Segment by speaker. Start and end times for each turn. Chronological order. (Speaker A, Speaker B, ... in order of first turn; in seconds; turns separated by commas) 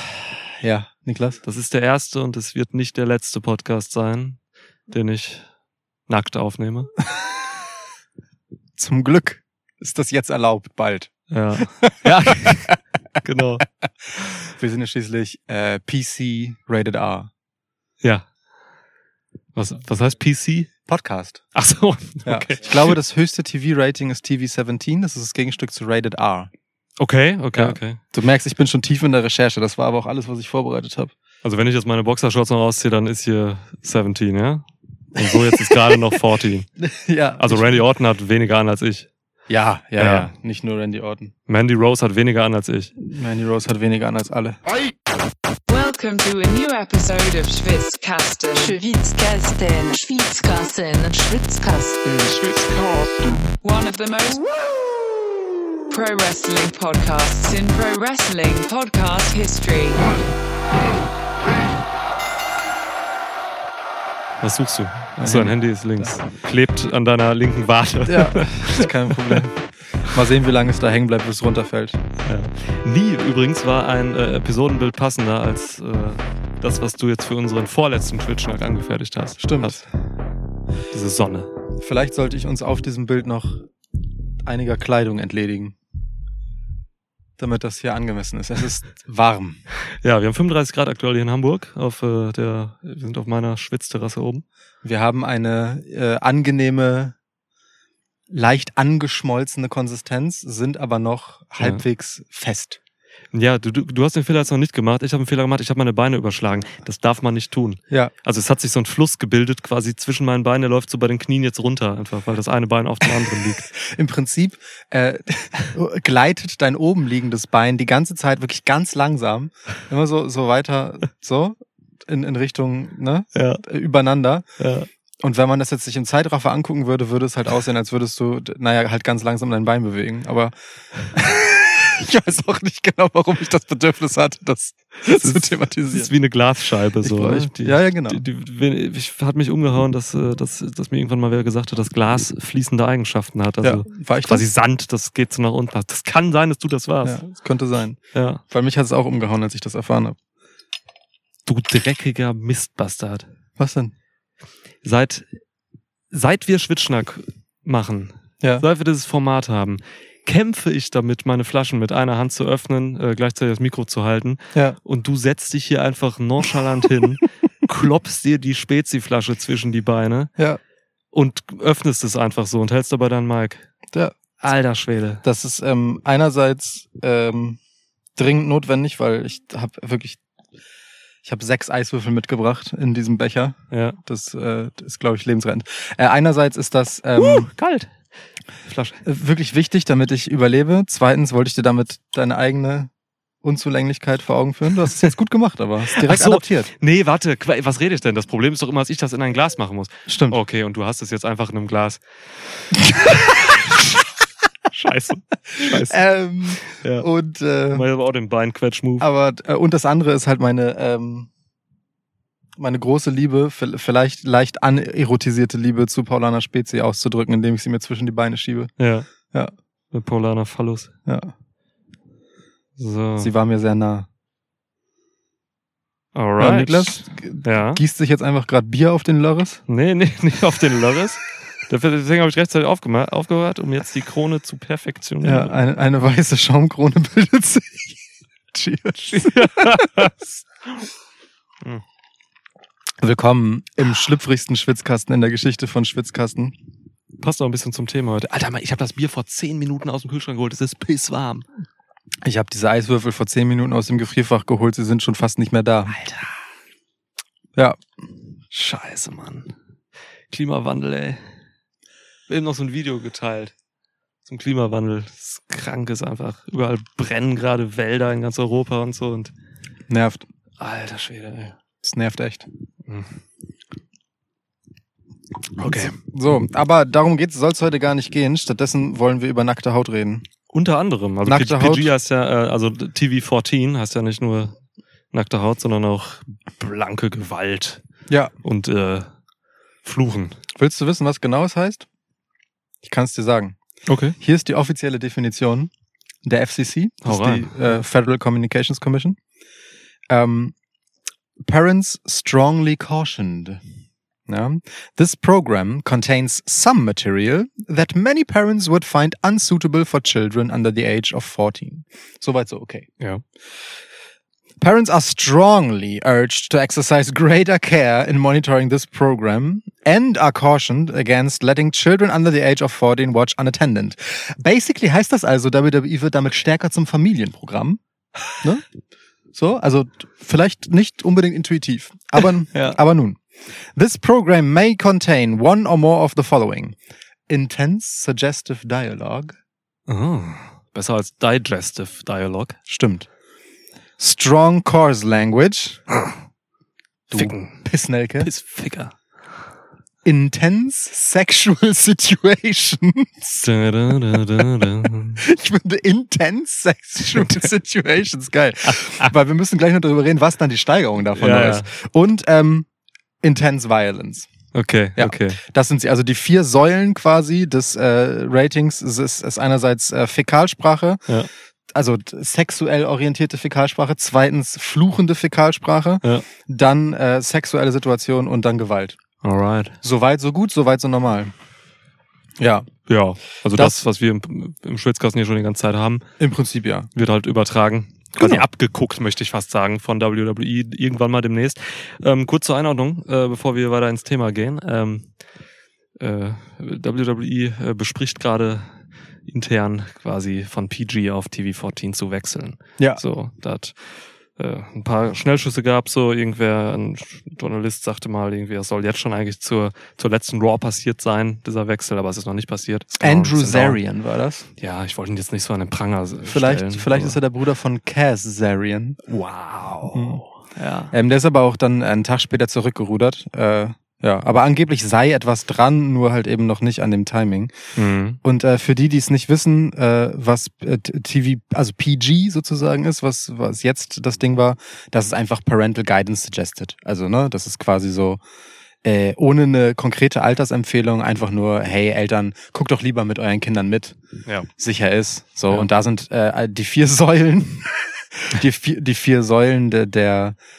Speaker A: 0.6-1.4, Speaker B: 1.4-5.5, Speaker B: 6.1-6.9, Speaker A: 8.8-11.1, Speaker B: 11.3-13.7, Speaker A: 11.8-12.8, Speaker A: 14.1-17.3, Speaker B: 18.0-18.3, Speaker B: 19.5-20.7, Speaker A: 20.9-21.4, Speaker B: 21.5-22.9, Speaker A: 22.2-26.5, Speaker B: 27.0-28.0, Speaker A: 27.5-31.1, Speaker B: 31.4-36.7, Speaker A: 35.2-36.1, Speaker A: 36.8-37.8, Speaker B: 37.4-39.1, Speaker A: 39.5-41.3, Speaker B: 40.0-40.3, Speaker B: 41.5-42.9, Speaker A: 43.0-44.6, Speaker C: 45.7-48.8, Speaker D: 48.5-53.5, Speaker C: 53.6-54.5, Speaker C: 55.9-60.0, Speaker B: 64.4-69.4, Speaker A: 65.2-66.1, Speaker A: 68.0-72.0, Speaker B: 72.2-79.8, Speaker A: 79.4-79.8, Speaker B: 80.9-81.5, Speaker A: 81.8-83.7, Speaker A: 84.4-85.8, Speaker A: 87.4-89.6, Speaker B: 90.0-94.4, Speaker A: 94.8-97.2, Speaker A: 98.3-102.8, Speaker B: 103.3-113.7, Speaker A: 113.7-124.4, Speaker B: 123.3-123.6, Speaker B: 124.6-124.9, Speaker A: 125.2-130.5, Speaker A: 131.1-136.1, Speaker B: 135.1-147.2, Speaker A: 137.0-138.2, Speaker A: 143.6-144.5, Speaker A: 147.0-150.2, Speaker B: 148.1-148.4, Speaker B: 151.4-153.2, Speaker A: 153.6-153.9, Speaker B: 154.8-155.4, Speaker B: 156.1-170.3, Speaker B: 171.1-173.7, Speaker B: 174.4-175.2, Speaker A: 175.2-177.6, Speaker A: 178.2-180.2, Speaker A: 181.2-187.5, Speaker B: 183.7-184.0, Speaker B: 187.2-187.9, Speaker B: 188.7-189.0, Speaker A: 189.0-192.9, Speaker A: 193.4-196.7, Speaker B: 195.9-202.0, Speaker A: 200.1-200.4, Speaker A: 202.9-203.6, Speaker B: 203.3-203.8, Speaker B: 204.7-206.0, Speaker A: 205.5-207.8, Speaker B: 206.6-207.1, Speaker B: 207.7-209.1, Speaker A: 209.0-211.3, Speaker A: 212.6-218.7, Speaker B: 218.8-219.1, Speaker B: 219.9-220.9, Speaker A: 221.1-221.3, Speaker B: 222.8-223.3, Speaker A: 223.2-224.1, Speaker B: 226.1-227.8, Speaker A: 226.4-229.6, Speaker B: 229.7-235.6, Speaker A: 235.2-238.0, Speaker A: 238.5-240.2, Speaker B: 239.2-240.1, Speaker A: 243.0-246.5, Speaker B: 247.2-251.4, Speaker A: 252.2-255.9, Speaker B: 255.9-256.3, Speaker B: 258.5-259.5, Speaker B: 260.3-261.2, Speaker B: 262.3-263.5, Speaker B: 264.2-269.3, Speaker A: 269.9-270.2, Speaker B: 270.6-271.6, Speaker A: 271.8-272.5, Speaker B: 272.9-273.1, Speaker B: 275.6-275.9, Speaker A: 275.6-280.2, Speaker B: 280.5-284.6, Speaker A: 281.2-281.9, Speaker B: 285.1-287.8, Speaker B: 288.4-289.1, Speaker B: 289.8-290.4, Speaker A: 290.6-291.9, Speaker A: 292.8-293.6, Speaker B: 293.9-294.1, Speaker A: 294.2-295.7, Speaker A: 296.2-299.2, Speaker B: 297.0-297.8, Speaker A: 300.1-300.5, Speaker A: 301.4-303.6, Speaker A: 304.3-312.9, Speaker A: 314.6-327.8, Speaker A: 328.4-328.6, Speaker A: 329.3-333.2, Speaker B: 332.5-332.8, Speaker A: 333.7-336.8, Speaker A: 337.3-339.3, Speaker B: 339.9-342.6, Speaker A: 342.7-343.1, Speaker A: 344.0-345.8, Speaker B: 347.1-347.6, Speaker A: 347.1-348.3, Speaker B: 348.2-348.9, Speaker A: 350.0-353.5, Speaker B: 353.4-355.2, Speaker A: 355.2-362.7, Speaker B: 357.1-357.5, Speaker B: 361.1-361.7, Speaker A: 363.2-364.3, Speaker B: 364.5-365.4, Speaker A: 365.0-371.0, Speaker A: 371.7-379.0, Speaker B: 379.2-379.8, Speaker A: 379.8-381.3, Speaker A: 382.4-382.7, Speaker B: 382.9-386.1, Speaker A: 383.5-383.8, Speaker A: 386.2-386.9, Speaker B: 386.9-395.1, Speaker A: 388.2-388.4, Speaker B: 396.0-413.8, Speaker A: 413.0-414.4, Speaker B: 414.6-417.2, Speaker A: 416.2-419.0, Speaker B: 419.1-420.9, Speaker A: 419.9-420.2, Speaker A: 420.9-427.5, Speaker B: 427.7-428.2, Speaker A: 428.2-438.2, Speaker A: 438.8-443.9, Speaker A: 444.6-450.4